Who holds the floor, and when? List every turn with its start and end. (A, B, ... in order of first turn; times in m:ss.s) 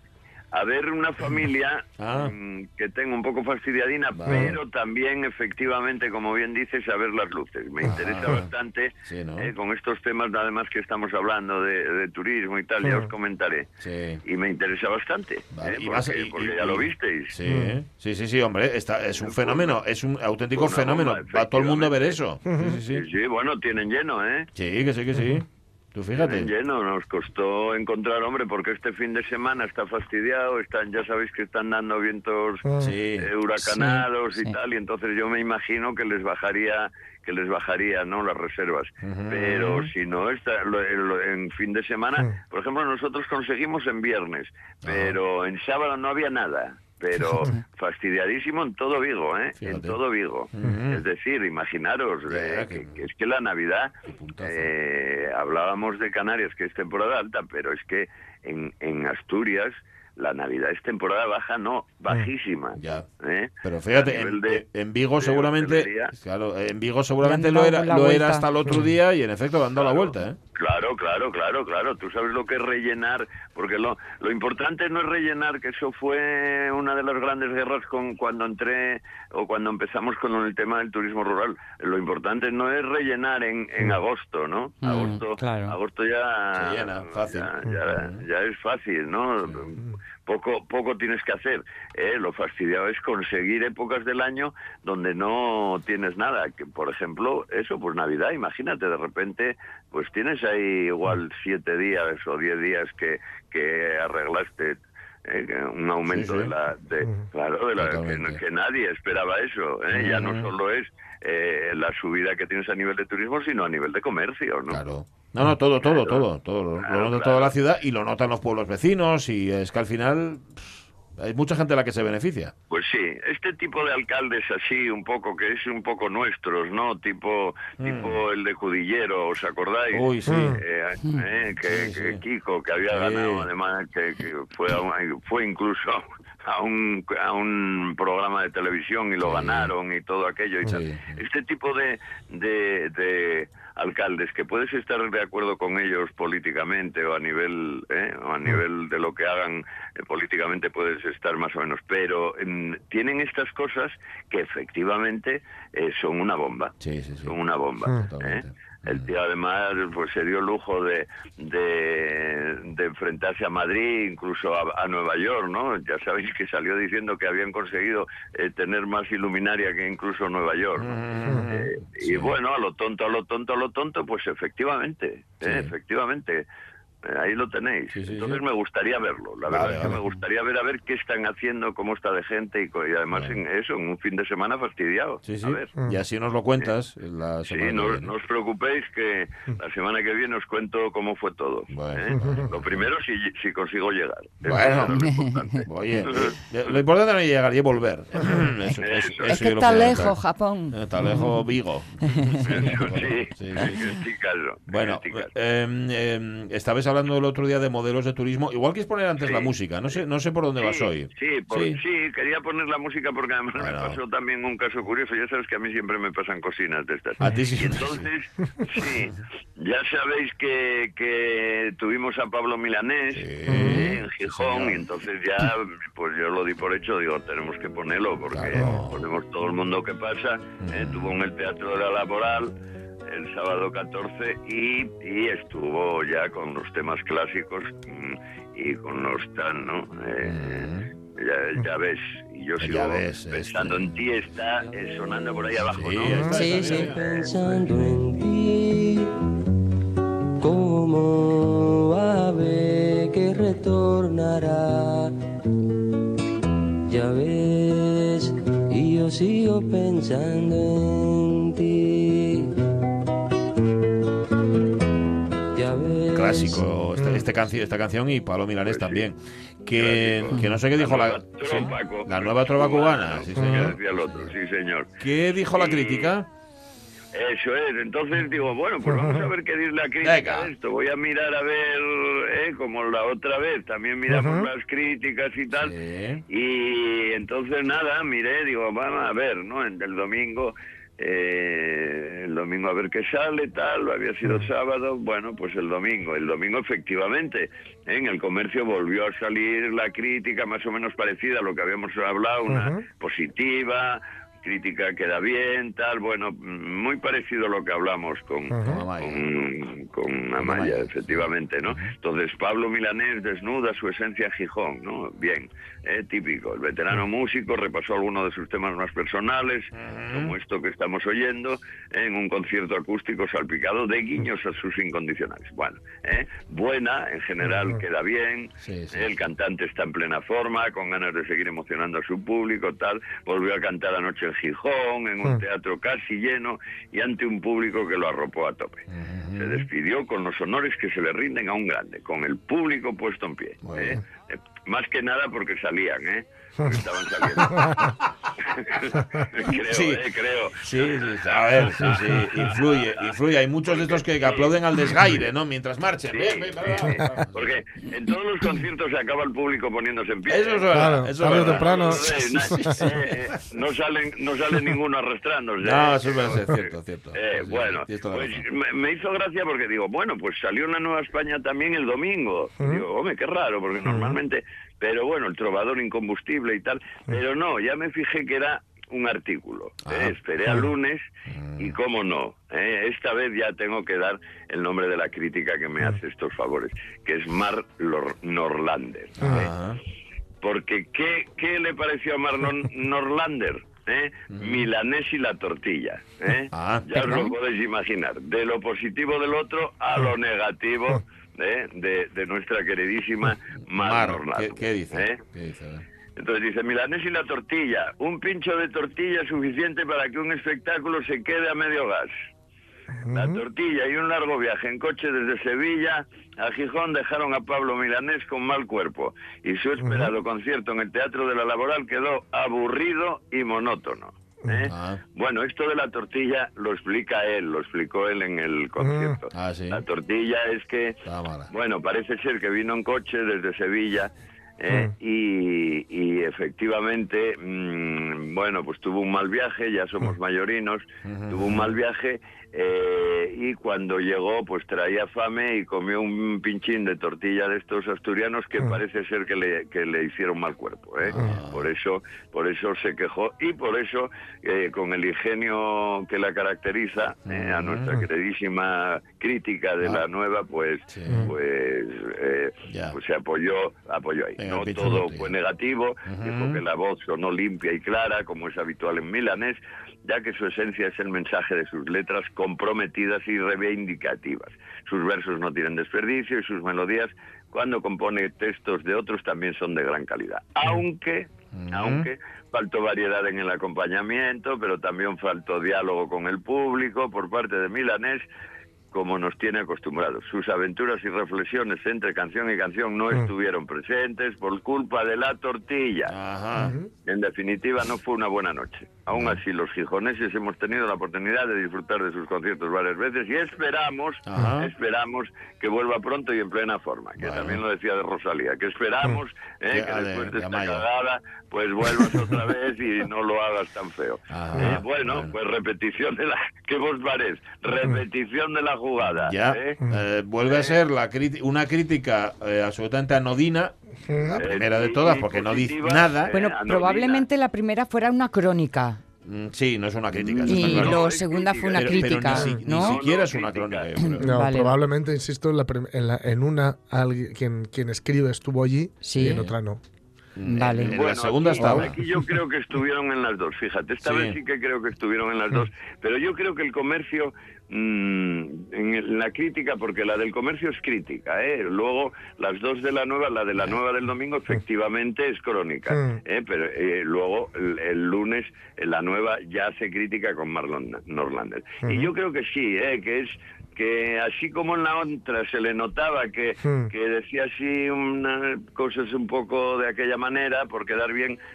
0:00.5-0:13.7 A
0:02.0-0:02.3 B
0:04.1-0:04.6 B
0:04.3-0:04.5 C
0:07.8-0:08.4 C
0:07.9-0:08.5 B
0:09.0-0:09.5 B
0:12.8-0:13.1 C
0:13.8-0:14.2 B
0:14.2-0:17.3 A
0:15.5-0:23.0 B
0:17.4-0:17.8 C
0:19.2-0:19.8 A
0:20.5-0:22.2 A
0:22.4-0:22.8 C
0:22.9-0:24.5 A
0:24.5-0:26.5 B
0:25.1-0:25.4 C
0:26.2-1:04.6 A
0:32.6-0:32.9 C
0:32.8-0:33.3 B
0:33.6-0:34.6 D
0:39.0-0:39.8 B
0:44.8-0:45.2 B
0:47.2-0:47.5 C
0:49.6-0:50.0 B
0:50.5-0:51.0 B
0:52.3-0:53.0 B
0:54.0-0:54.7 B
1:02.8-1:03.1 B
1:03.6-1:10.4 B
1:05.2-1:06.1 A
1:07.2-1:08.4 D
1:08.6-1:08.9 C
1:09.7-1:54.8 A
1:24.8-1:25.8 D
1:24.8-1:25.2 B
1:26.5-1:28.2 B
1:46.1-1:46.5 B
1:47.8-1:48.4 B
1:49.9-1:50.5 B
1:54.7-2:02.5 B
1:55.8-1:56.3 A
1:56.8-1:57.5 A
2:02.7-2:36.7 A
2:07.8-2:08.2 B
2:09.9-2:10.6 B
2:10.2-2:10.6 C
2:11.6-2:12.2 B
2:12.9-2:13.5 B
2:19.2-2:19.7 B
2:20.6-2:21.2 B
2:36.8-2:37.4 B
2:37.2-2:56.4 A
2:38.0-2:39.1 B
2:50.8-2:52.4 B
2:55.4-2:55.7 B
2:57.0-3:05.8 A
2:57.9-2:58.4 B
2:59.5-3:00.2 B
3:03.1-3:03.4 B
3:05.2-3:08.1 B
3:07.4-3:16.7 A
3:11.7-3:12.9 B
3:12.1-3:12.5 C
3:14.4-3:20.2 B
3:15.1-3:15.6 D
3:18.8-3:19.4 A
3:19.3-3:21.4 D
3:20.7-3:23.9 B
3:22.4-3:25.3 A
3:24.7-3:31.8 B
3:29.2-3:30.0 A
3:30.6-3:52.5 A
3:33.6-3:34.0 B
3:37.2-3:38.1 B
3:43.1-3:44.9 B
3:43.5-3:43.9 C
3:48.3-3:49.0 B
3:48.5-3:48.8 C
3:50.6-3:51.1 B
3:53.1-4:07.3 A
4:00.2-4:00.9 B
4:02.6-4:03.9 B
4:05.7-4:07.0 B
4:06.0-4:06.4 C
4:06.3-4:06.9 D
4:06.7-4:09.1 E
4:10.4-4:15.1 E
4:16.9-4:22.5 E
4:25.5-4:26.7 E
4:26.1-4:34.3 B
4:27.0-4:27.3 C
4:28.6-4:29.1 A
4:29.7-4:34.9 A
4:30.3-4:30.6 D
4:33.3-4:33.7 C
4:35.0-4:36.3 B
4:35.5-4:36.1 A
4:37.1-4:45.8 A
4:38.8-4:39.3 C
4:40.0-4:40.5 B
4:44.1-4:44.5 C
4:45.5-4:46.2 B
4:46.3-5:38.8 A
4:54.2-4:54.5 C
5:02.5-5:02.8 C
5:08.5-5:08.8 C
5:08.6-5:09.2 B
5:10.4-5:11.9 B
5:19.7-5:20.4 B
5:27.4-5:27.8 C
5:28.6-5:29.1 B
5:38.9-5:39.6 B
5:39.4-5:47.9 A
5:43.6-5:44.0 B
5:47.4-5:47.7 C
5:47.4-5:48.1 B
5:48.6-5:55.2 A
5:49.4-5:50.0 B
5:50.6-5:57.6 B
5:51.9-5:52.2 C
5:56.1-6:21.0 A
6:00.3-6:03.1 B
6:00.7-6:03.0 C
6:05.6-6:08.4 B
6:12.6-6:12.8 C
6:13.8-6:14.2 C
6:19.8-6:20.2 B
6:21.3-6:21.8 B
6:21.6-6:29.5 A
6:29.2-6:29.8 B
6:29.2-6:29.5 C
6:30.4-6:45.2 A
6:34.3-6:34.7 B
6:36.5-6:37.4 B
6:43.8-6:45.8 B
6:46.2-6:52.1 A
6:52.9-6:53.4 C
6:53.1-8:08.3 A
6:59.8-7:00.1 C
7:04.4-7:04.7 C
7:04.7-7:05.0 B
7:08.8-7:09.2 C
7:09.3-7:09.8 B
7:11.0-7:11.5 B
7:21.0-7:21.8 B
7:31.0-7:31.7 B
7:31.1-7:31.4 C
7:37.2-7:37.9 B
7:40.9-7:41.4 B
7:42.7-7:43.0 B
7:44.4-7:45.3 B
7:46.0-7:46.6 B
8:01.5-8:02.1 B
8:08.9-8:16.1 A
8:16.0-8:16.8 B
8:16.6-8:16.9 C
8:17.0-8:39.8 A
8:19.1-8:19.4 B
8:24.2-8:24.7 B
8:27.2-8:27.6 B
8:29.7-8:30.8 B
8:31.9-8:32.4 B
8:34.3-8:35.3 B
8:39.1-8:46.3 B
8:40.5-8:40.8 A
8:44.1-8:44.5 C
8:44.3-8:47.2 A
8:46.3-8:49.0 D
8:49.2-8:51.0 B
8:50.4-8:54.1 A
8:50.4-8:53.0 D
8:51.7-8:54.2 B
8:52.3-8:52.6 C
8:54.1-8:54.7 D
8:54.2-8:59.8 C
8:59.0-8:59.4 D
8:59.2-8:59.5 B
9:00.4-9:02.3 B
9:00.4-9:01.0 D
9:00.8-9:31.4 A
9:01.6-9:02.1 C
9:04.0-9:04.4 B
9:15.9-9:16.2 C
9:21.8-9:22.1 C
9:26.6-9:26.9 C